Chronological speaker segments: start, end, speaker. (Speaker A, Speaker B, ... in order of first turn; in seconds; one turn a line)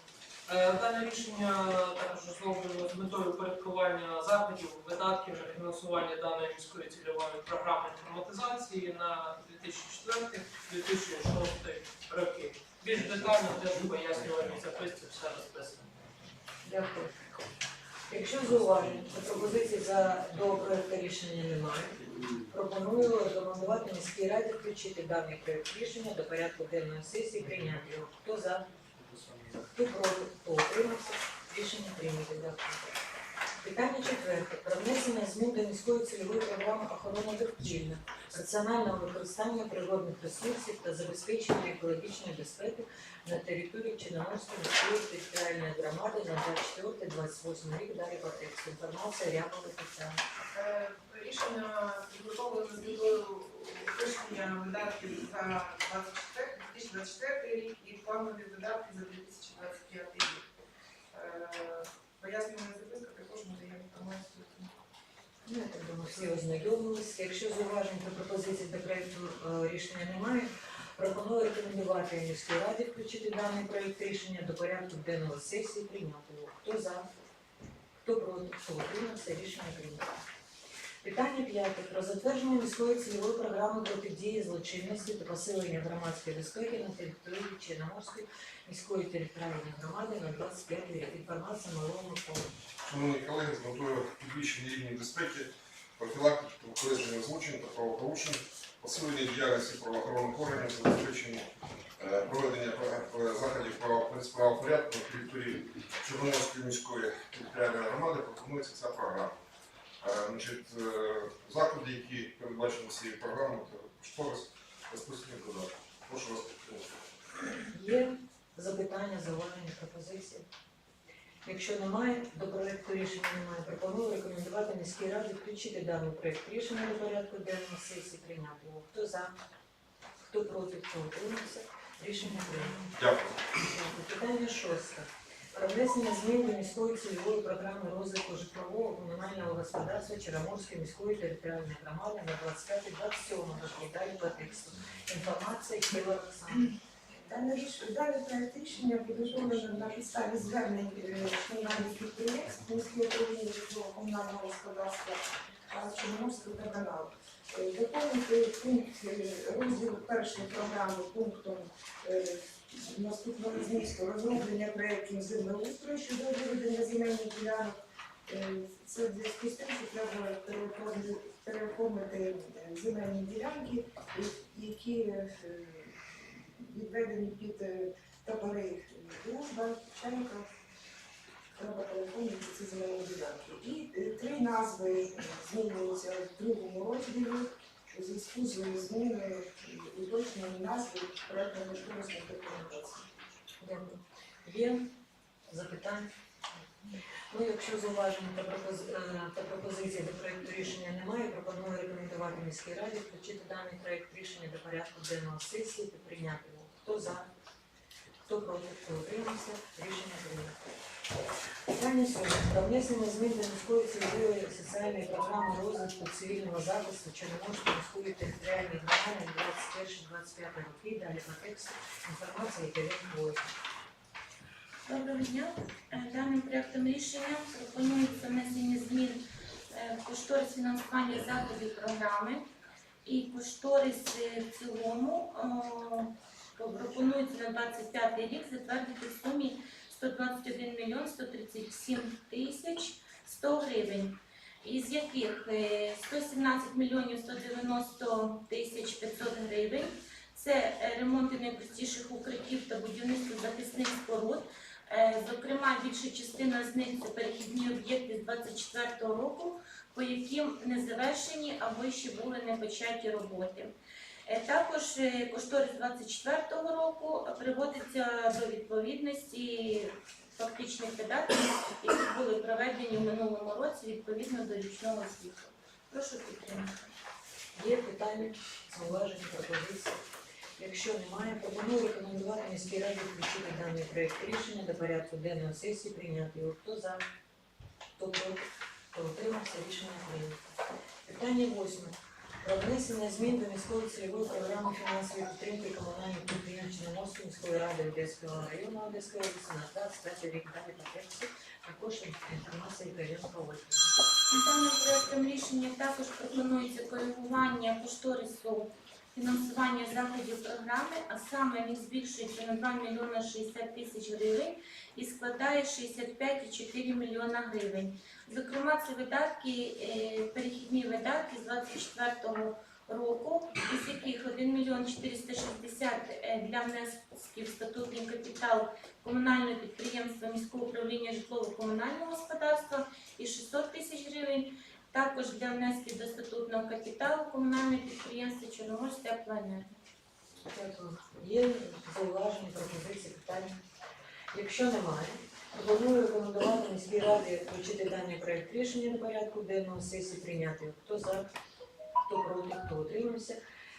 Speaker A: 0.5-15.9
Speaker B: 16.6-17.4
Speaker B: 18.1-28.6
Speaker B: 29.7-32.9
Speaker B: 33.6-50.2
Speaker C: 51.0-51.9
Speaker C: 53.9-57.1
Speaker D: 57.2-60.3
Speaker C: 59.3-59.7
Speaker D: 61.1-61.6
Speaker D: 62.2-64.6
Speaker B: 65.5-77.1
Speaker B: 78.0-80.2
Speaker B: 81.0-92.5
Speaker E: 92.8-109.4
Speaker E: 110.0-117.0
Speaker B: 117.7-120.5
Speaker B: 121.5-129.3
Speaker B: 130.3-132.8
Speaker E: 132.9-133.5
Speaker B: 133.7-146.7
Speaker D: 147.1-180.5
Speaker D: 181.6-193.1
Speaker B: 193.6-194.9
Speaker B: 195.5-196.1
Speaker B: 197.3-207.3
Speaker B: 208.3-210.7
Speaker B: 211.7-223.6
Speaker F: 224.9-232.5
Speaker F: 233.1-263.7
Speaker F: 264.3-276.8
Speaker B: 277.5-280.0
Speaker B: 280.6-287.0
Speaker B: 288.0-290.5
Speaker B: 291.1-303.9
Speaker F: 304.3-339.8
Speaker B: 340.5-343.6
Speaker B: 344.3-351.3
Speaker B: 352.0-353.4